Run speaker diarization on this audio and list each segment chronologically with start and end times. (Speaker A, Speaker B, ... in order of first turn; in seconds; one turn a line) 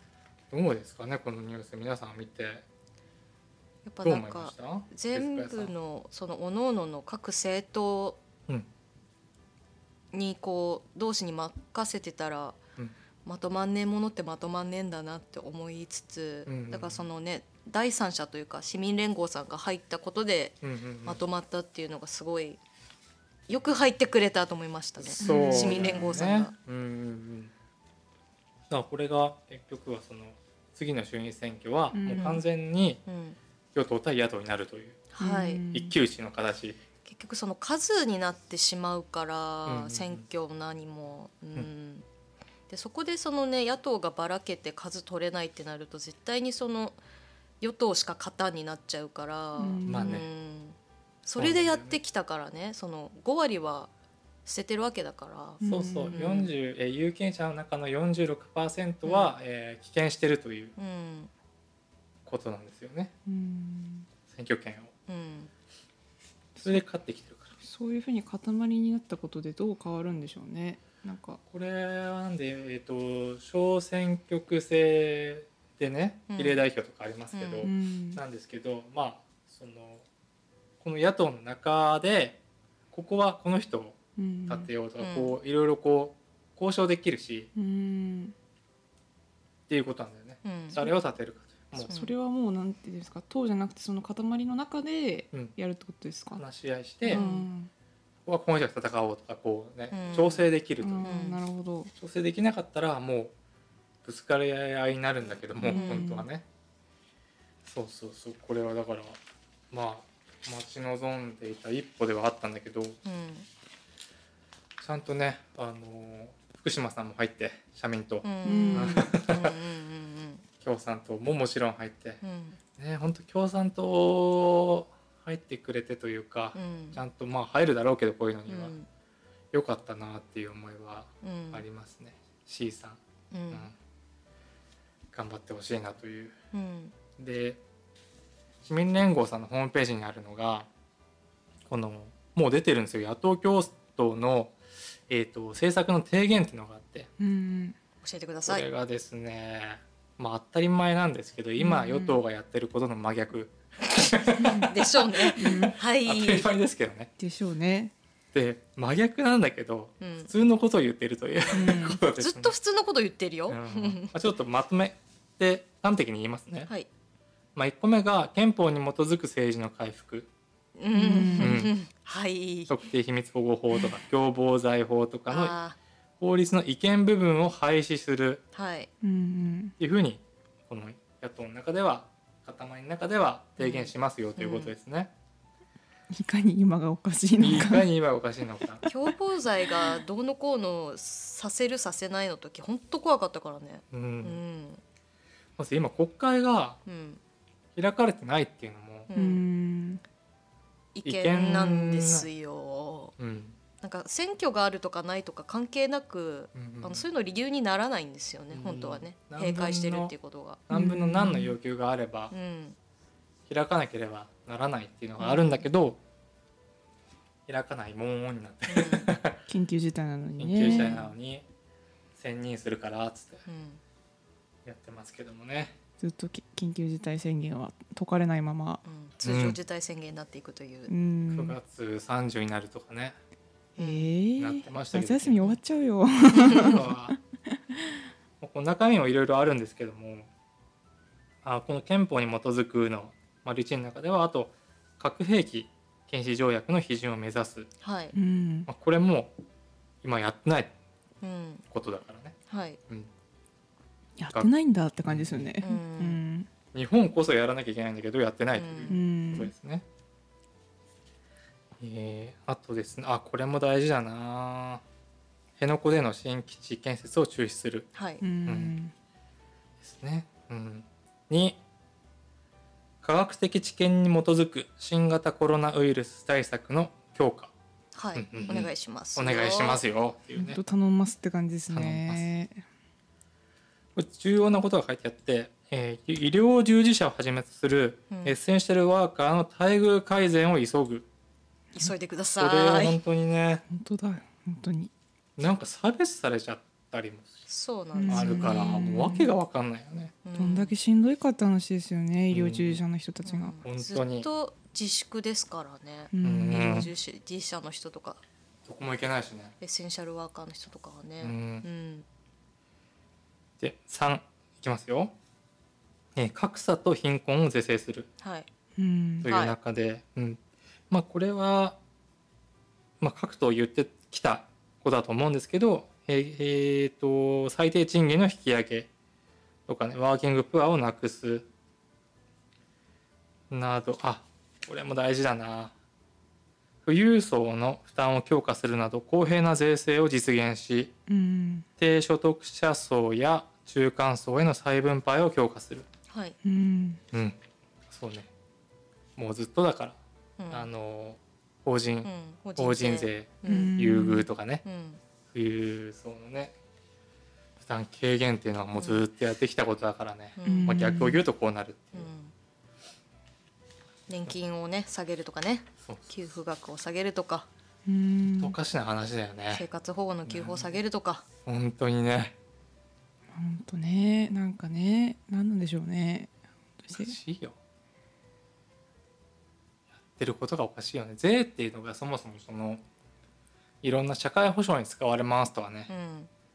Speaker A: 0.5-2.6
Speaker B: 3.9-8.2
Speaker A: 4.0-5.7
Speaker B: 10.1-12.6
Speaker B: 13.2-22.6
Speaker A: 16.5-17.0
Speaker A: 20.6-21.2
Speaker B: 23.5-26.5
Speaker A: 25.0-27.5
Speaker C: 25.2-26.1
Speaker A: 28.7-33.0
Speaker C: 31.9-32.4
Speaker B: 32.1-32.4
Speaker B: 33.1-33.4
Speaker A: 33.7-35.0
Speaker B: 35.1-35.6
Speaker C: 35.2-35.9
Speaker A: 35.7-36.8
Speaker B: 37.0-42.0
Speaker A: 39.7-40.2
Speaker B: 42.7-47.0
Speaker B: 47.6-53.9
Speaker C: 49.6-50.2
Speaker A: 49.8-50.3
Speaker A: 51.3-52.0
Speaker B: 54.5-55.6
Speaker C: 55.6-56.3
Speaker A: 55.6-60.7
Speaker B: 56.1-56.5
Speaker B: 59.0-59.4
Speaker B: 60.8-61.3
Speaker A: 62.2-63.1
Speaker C: 63.2-64.1
Speaker A: 64.3-64.9
Speaker B: 65.1-65.5
Speaker C: 66.6-66.8
Speaker A: 66.6-67.5
Speaker C: 67.6-71.4
Speaker A: 71.5-80.0
Speaker B: 76.3-76.6
Speaker B: 77.3-77.7
Speaker C: 77.6-78.2
Speaker A: 80.8-82.4
Speaker A: 82.9-87.5
Speaker C: 84.2-84.7
Speaker B: 85.0-85.3
Speaker C: 87.5-88.3
Speaker A: 89.7-91.9
Speaker B: 90.4-90.8
Speaker C: 91.8-96.4
Speaker B: 91.9-92.2
Speaker A: 96.3-97.2
Speaker C: 97.0-97.7
Speaker B: 97.1-97.5
Speaker A: 98.2-101.2
Speaker B: 99.9-100.5
Speaker C: 100.8-101.9
Speaker B: 101.0-101.4
Speaker A: 102.0-103.3
Speaker A: 104.0-106.4
Speaker C: 105.6-106.3
Speaker B: 105.7-106.2
Speaker A: 107.7-109.2
Speaker A: 109.7-113.0
Speaker B: 113.0-113.5
Speaker A: 114.8-119.6
Speaker B: 118.2-120.4
Speaker C: 118.4-119.1
Speaker A: 120.6-122.2
Speaker B: 122.2-122.6
Speaker A: 122.8-128.7
Speaker B: 126.5-127.0
Speaker B: 128.5-128.8
Speaker A: 129.5-133.0
Speaker B: 131.2-131.6
Speaker B: 133.3-133.7
Speaker A: 135.1-136.3
Speaker B: 136.5-136.9
Speaker A: 137.2-137.6
Speaker A: 138.6-140.7
Speaker A: 141.7-144.6
Speaker A: 145.1-147.1
Speaker C: 147.2-147.8
Speaker B: 148.0-148.7
Speaker A: 148.5-157.1
Speaker C: 151.6-152.2
Speaker C: 154.4-154.7
Speaker B: 154.6-156.5
Speaker C: 155.3-155.7
Speaker C: 157.2-157.9
Speaker A: 158.3-162.5
Speaker B: 160.0-160.3
Speaker C: 161.5-162.0
Speaker B: 161.6-164.1
Speaker A: 163.5-166.7
Speaker A: 167.6-170.3
Speaker B: 170.8-172.7
Speaker C: 170.9-171.6
Speaker A: 171.4-171.7
Speaker A: 172.7-175.5
Speaker B: 175.3-175.8
Speaker A: 176.2-178.4
Speaker B: 178.5-178.9
Speaker C: 179.0-179.8
Speaker A: 179.8-185.1
Speaker B: 183.6-184.7
Speaker C: 186.1-187.9
Speaker A: 187.4-188.8
Speaker C: 188.8-190.0
Speaker B: 188.8-194.8
Speaker A: 193.9-194.4
Speaker A: 195.6-196.8
Speaker B: 196.8-197.2
Speaker A: 197.8-199.1
Speaker B: 199.1-199.4
Speaker C: 199.1-200.0
Speaker B: 200.9-203.1
Speaker A: 201.0-202.3
Speaker A: 203.2-203.6
Speaker B: 203.8-210.6
Speaker A: 206.5-207.0
Speaker A: 208.5-210.2
Speaker A: 210.7-212.3
Speaker C: 210.7-211.6
Speaker B: 212.3-212.8
Speaker A: 213.5-216.0
Speaker A: 217.5-219.4
Speaker B: 218.7-219.1
Speaker C: 219.5-221.1
Speaker A: 220.4-221.4
Speaker B: 220.6-221.0
Speaker A: 222.2-223.4
Speaker B: 223.5-223.8
Speaker A: 224.7-225.8
Speaker C: 226.0-228.8
Speaker B: 228.8-230.9
Speaker A: 229.2-229.6
Speaker C: 230.9-231.6
Speaker A: 231.3-233.2
Speaker B: 233.8-234.1
Speaker C: 233.8-238.1
Speaker A: 234.4-235.6
Speaker A: 236.3-237.2
Speaker B: 236.4-236.7
Speaker A: 238.4-240.3
Speaker A: 241.4-247.7
Speaker B: 247.8-248.2
Speaker C: 248.1-248.7
Speaker A: 248.7-249.3
Speaker A: 250.0-250.7
Speaker B: 251.2-251.6
Speaker A: 251.7-252.3
Speaker B: 252.5-252.8
Speaker C: 254.2-256.5
Speaker A: 255.1-255.5
Speaker B: 255.6-256.2
Speaker A: 256.7-259.9
Speaker B: 258.6-259.0
Speaker C: 258.9-259.5
Speaker A: 261.8-264.8
Speaker A: 265.6-267.9
Speaker B: 267.9-268.2
Speaker C: 268.2-268.9
Speaker A: 268.4-268.7
Speaker A: 269.8-271.6
Speaker A: 273.0-277.5
Speaker B: 277.9-279.8
Speaker A: 278.1-280.6
Speaker C: 280.4-282.6
Speaker A: 281.7-282.3
Speaker A: 284.0-291.1
Speaker B: 288.1-288.4
Speaker B: 291.8-293.0
Speaker A: 292.4-293.6
Speaker C: 293.7-294.9
Speaker A: 295.4-297.4
Speaker B: 297.5-298.8
Speaker C: 297.9-299.3
Speaker A: 298.1-300.2
Speaker B: 300.2-300.7
Speaker C: 300.4-303.6
Speaker A: 302.3-302.8
Speaker B: 303.2-308.2
Speaker A: 303.6-304.3
Speaker C: 306.1-306.9
Speaker A: 306.2-306.9
Speaker A: 308.7-309.5
Speaker B: 309.6-312.0
Speaker A: 311.2-311.6
Speaker A: 313.6-315.1
Speaker A: 316.1-318.1
Speaker B: 318.2-318.5
Speaker C: 318.8-319.3
Speaker A: 319.2-321.8
Speaker B: 319.2-319.6
Speaker A: 323.0-328.9
Speaker A: 329.7-331.5
Speaker A: 333.5-335.7
Speaker A: 336.9-340.9
Speaker C: 341.1-341.7
Speaker A: 341.8-345.9
Speaker B: 346.1-346.4
Speaker C: 346.4-347.0
Speaker A: 347.1-347.4
Speaker A: 347.9-348.3
Speaker A: 349.2-350.0
Speaker B: 350.4-350.7
Speaker A: 350.5-354.6
Speaker B: 352.0-353.9
Speaker C: 353.5-354.3
Speaker B: 354.6-355.0
Speaker A: 355.3-356.5
Speaker A: 357.6-362.1
Speaker B: 358.8-359.0
Speaker B: 360.4-360.9
Speaker C: 360.4-361.2
Speaker B: 361.9-362.3
Speaker B: 364.1-367.5
Speaker A: 365.8-366.2
Speaker C: 367.9-368.6
Speaker A: 368.4-369.6
Speaker B: 369.5-371.2
Speaker A: 370.2-370.8
Speaker A: 371.4-372.4
Speaker C: 373.3-377.1
Speaker A: 376.9-377.6
Speaker A: 380.1-382.8
Speaker A: 383.8-385.9
Speaker B: 385.9-386.3